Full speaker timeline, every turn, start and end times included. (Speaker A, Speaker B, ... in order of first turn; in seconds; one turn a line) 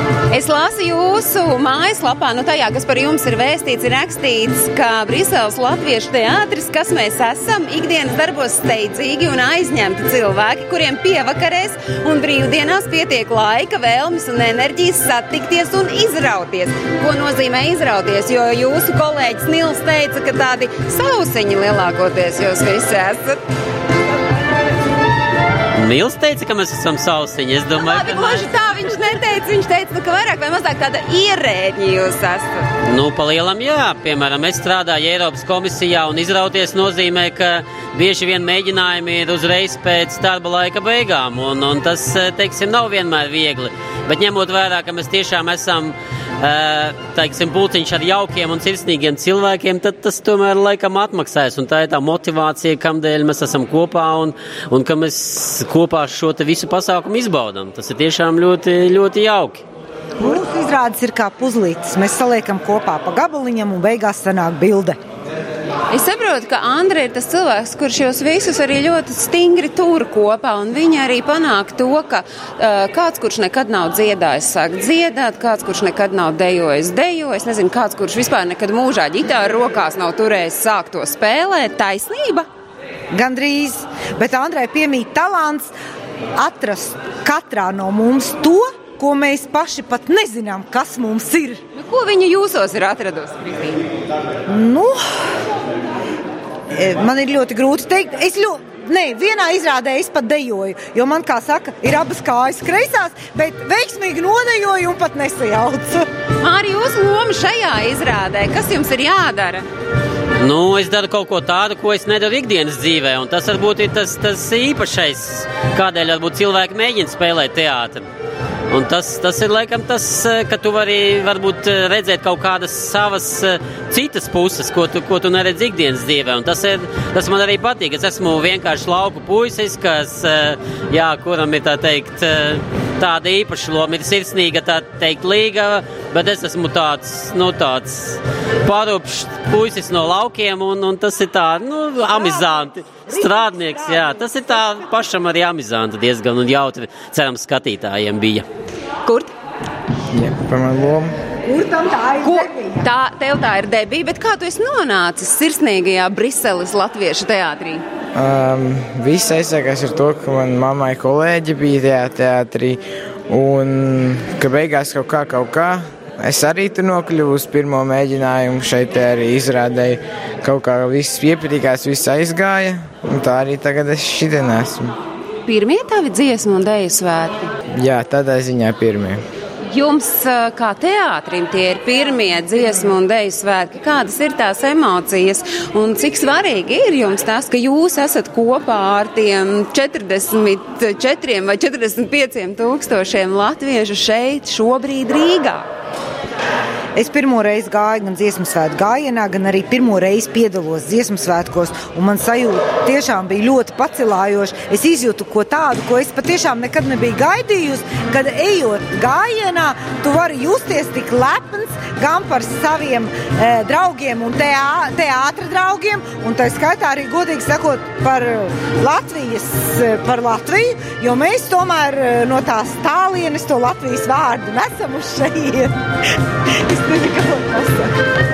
Speaker A: 0.3-23.4
Speaker B: 25.7-28.4
Speaker A: 27.7-32.6
Speaker B: 32.9-59.6
Speaker C: 60.2-65.0
Speaker A: 65.9-82.5
Speaker C: 83.1-85.7
Speaker C: 86.3-91.6
Speaker A: 91.7-93.8
Speaker C: 94.5-95.2
Speaker C: 96.7-106.1
Speaker A: 106.4-109.7
Speaker B: 110.4-118.0
Speaker B: 118.7-148.4
Speaker C: 142.1-144.6
Speaker A: 149.0-149.3
Speaker D: 150.1-151.1
Speaker C: 151.4-152.8
Speaker A: 152.2-157.8
Speaker D: 158.1-174.9
Speaker A: 175.4-177.5
Speaker D: 177.7-179.2
Speaker A: 179.7-195.7
Speaker C: 196.9-225.8
Speaker C: 226.5-228.0